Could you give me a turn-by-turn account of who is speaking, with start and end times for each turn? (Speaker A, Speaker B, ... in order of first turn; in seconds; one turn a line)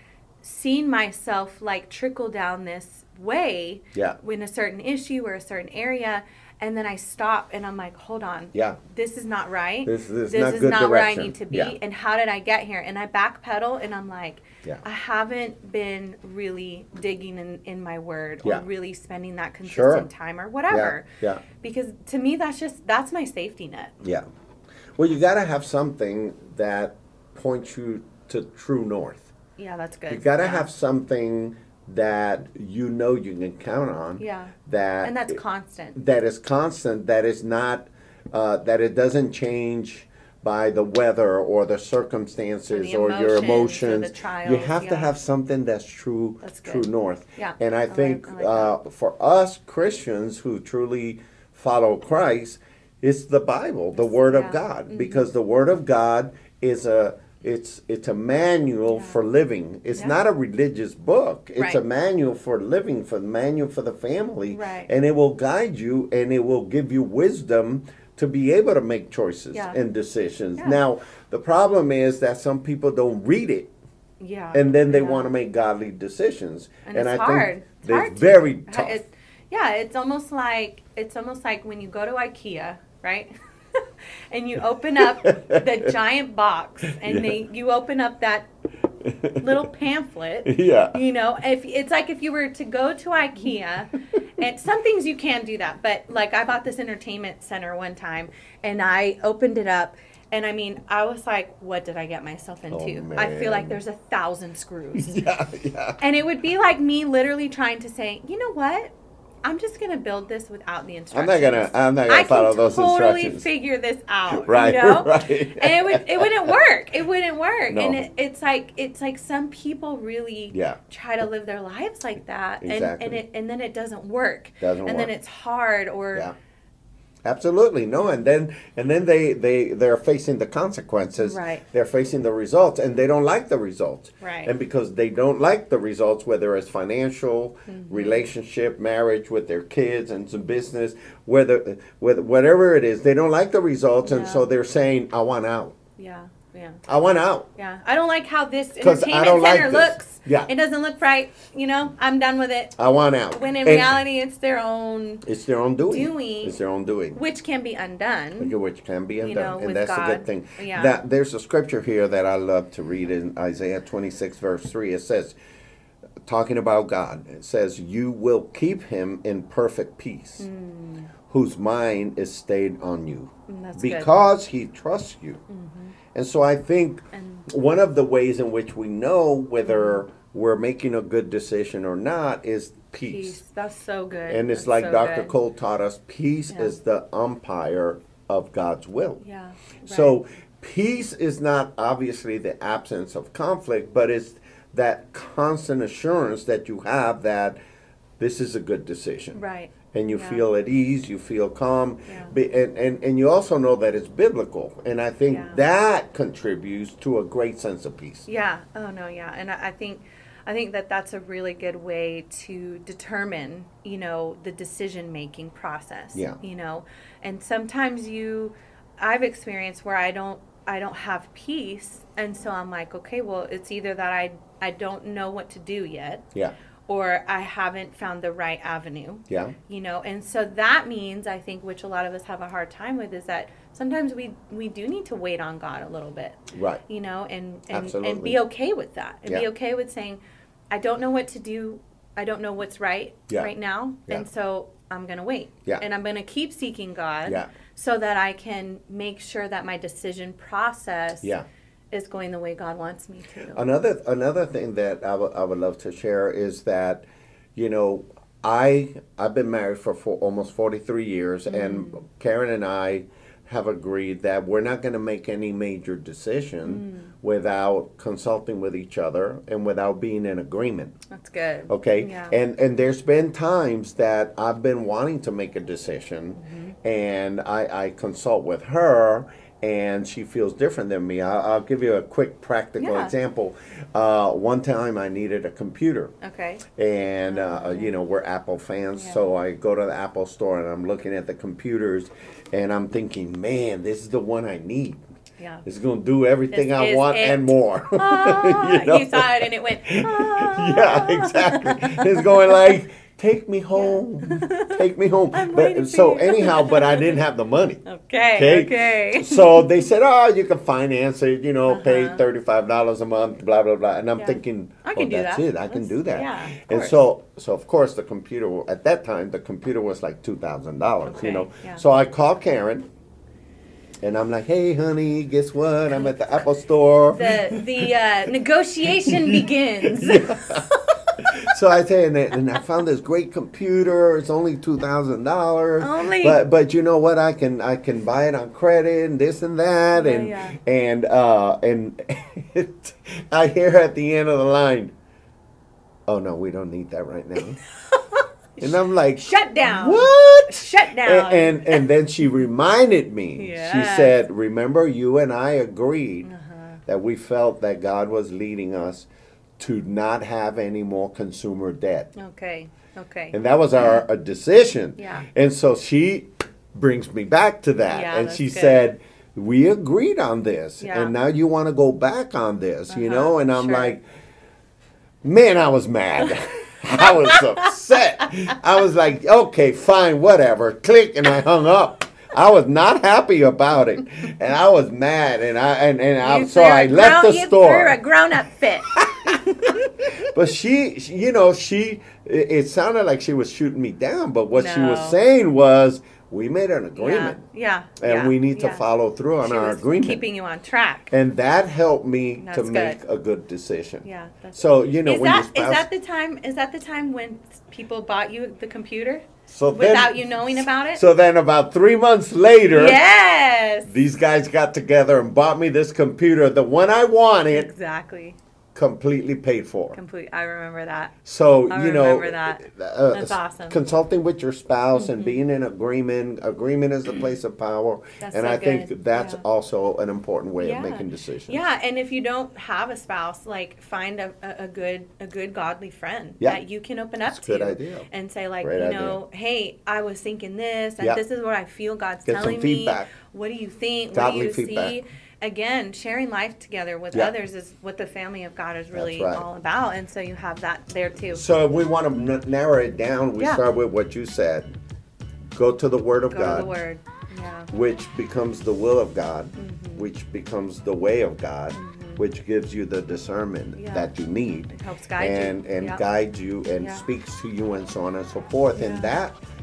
Speaker A: 0.4-23.9
Speaker B: 9.8-11.8
Speaker B: 19.6-20.1
Speaker B: 20.7-21.4
Speaker B: 25.0-29.3
Speaker A: 29.6-30.7
Speaker B: 30.1-35.4
Speaker A: 34.2-36.0
Speaker B: 36.0-73.7
Speaker A: 42.7-45.1
Speaker A: 46.4-48.7
Speaker A: 54.0-55.3
Speaker A: 58.9-59.2
Speaker A: 64.5-64.9
Speaker A: 69.5-69.8
Speaker A: 74.2-75.3
Speaker B: 74.5-79.0
Speaker A: 76.9-88.5
Speaker B: 85.0-85.9
Speaker B: 87.0-87.4
Speaker B: 89.0-89.6
Speaker A: 89.4-105.2
Speaker B: 90.5-91.0
Speaker B: 102.7-103.8
Speaker B: 105.0-106.0
Speaker A: 106.0-108.9
Speaker A: 109.4-126.3
Speaker B: 111.1-113.5
Speaker B: 114.3-116.6
Speaker B: 117.7-118.0
Speaker B: 120.5-120.8
Speaker B: 122.6-123.2
Speaker B: 124.6-125.1
Speaker B: 127.2-145.8
Speaker A: 131.2-131.6
Speaker A: 134.2-134.5
Speaker A: 137.7-138.3
Speaker A: 144.0-144.5
Speaker A: 146.0-146.8
Speaker B: 146.9-147.5
Speaker A: 147.6-152.8
Speaker B: 148.8-150.5
Speaker B: 152.8-154.0
Speaker A: 153.3-155.2
Speaker B: 155.2-157.2
Speaker A: 155.9-156.6
Speaker A: 157.2-158.6
Speaker B: 158.4-165.4
Speaker A: 159.2-161.0
Speaker B: 166.3-170.5
Speaker A: 170.4-171.1
Speaker B: 171.3-175.4
Speaker A: 173.5-174.2
Speaker A: 175.5-175.9
Speaker B: 176.1-183.4
Speaker A: 177.1-177.4
Speaker A: 179.6-180.0
Speaker A: 183.1-185.4
Speaker B: 184.3-189.2
Speaker A: 186.5-186.8
Speaker A: 189.2-190.2
Speaker B: 189.8-197.6
Speaker B: 198.2-199.4
Speaker A: 199.3-200.4
Speaker B: 199.9-208.3
Speaker A: 205.3-205.6
Speaker A: 208.3-226.2
Speaker A: 226.9-240.2
Speaker B: 229.3-229.6
Speaker B: 236.5-236.8
Speaker B: 237.7-238.4
Speaker A: 240.7-251.3
Speaker A: 251.9-253.7
Speaker B: 253.6-271.0
Speaker A: 261.5-262.0
Speaker A: 266.6-267.1
Speaker A: 271.1-272.4
Speaker B: 271.7-286.1
Speaker A: 276.4-276.8
Speaker A: 282.8-283.1
Speaker A: 286.2-286.6
Speaker B: 286.8-295.0
Speaker A: 287.3-288.0
Speaker A: 289.0-289.2
Speaker A: 295.4-295.6
Speaker B: 295.6-307.8
Speaker A: 296.5-302.8
Speaker A: 303.8-307.2
Speaker A: 307.8-309.9
Speaker B: 308.4-322.9
Speaker A: 311.7-312.2
Speaker A: 314.2-317.0
Speaker A: 321.1-321.8
Speaker B: 324.0-327.6
Speaker A: 327.1-331.1
Speaker B: 329.0-344.9
Speaker A: 335.8-336.4
Speaker A: 339.9-340.6
Speaker B: 346.1-347.6
Speaker A: 347.9-351.9
Speaker B: 348.6-356.3
Speaker A: 353.4-354.2
Speaker A: 356.2-356.8
Speaker B: 356.9-359.1
Speaker B: 359.6-362.1
Speaker A: 362.2-363.4
Speaker B: 363.3-374.0
Speaker A: 365.0-365.3
Speaker A: 367.9-368.9
Speaker A: 370.8-371.1
Speaker A: 372.9-374.0
Speaker B: 375.2-388.0
Speaker A: 377.0-377.6
Speaker A: 386.2-390.1
Speaker B: 389.0-397.4
Speaker A: 394.5-395.2
Speaker A: 397.0-398.9
Speaker B: 398.0-400.2
Speaker A: 399.4-401.1
Speaker B: 401.1-405.9
Speaker A: 402.4-403.0
Speaker A: 404.0-411.0
Speaker B: 409.5-413.0
Speaker A: 412.7-413.9
Speaker B: 413.9-417.7
Speaker A: 417.5-418.4
Speaker B: 418.8-420.0
Speaker A: 419.9-421.1
Speaker B: 421.2-431.6
Speaker A: 421.7-423.8
Speaker A: 424.9-425.4
Speaker A: 428.2-429.4
Speaker A: 430.6-451.4
Speaker B: 437.3-438.1
Speaker B: 438.6-439.2
Speaker B: 442.3-443.1
Speaker B: 444.1-445.0
Speaker B: 448.9-449.5
Speaker B: 451.3-454.7
Speaker B: 455.6-456.7
Speaker A: 456.3-457.7
Speaker B: 457.7-469.4
Speaker A: 459.6-460.1
Speaker A: 461.7-462.2
Speaker A: 463.8-464.1
Speaker A: 464.7-466.0
Speaker A: 466.8-467.1
Speaker A: 468.8-469.2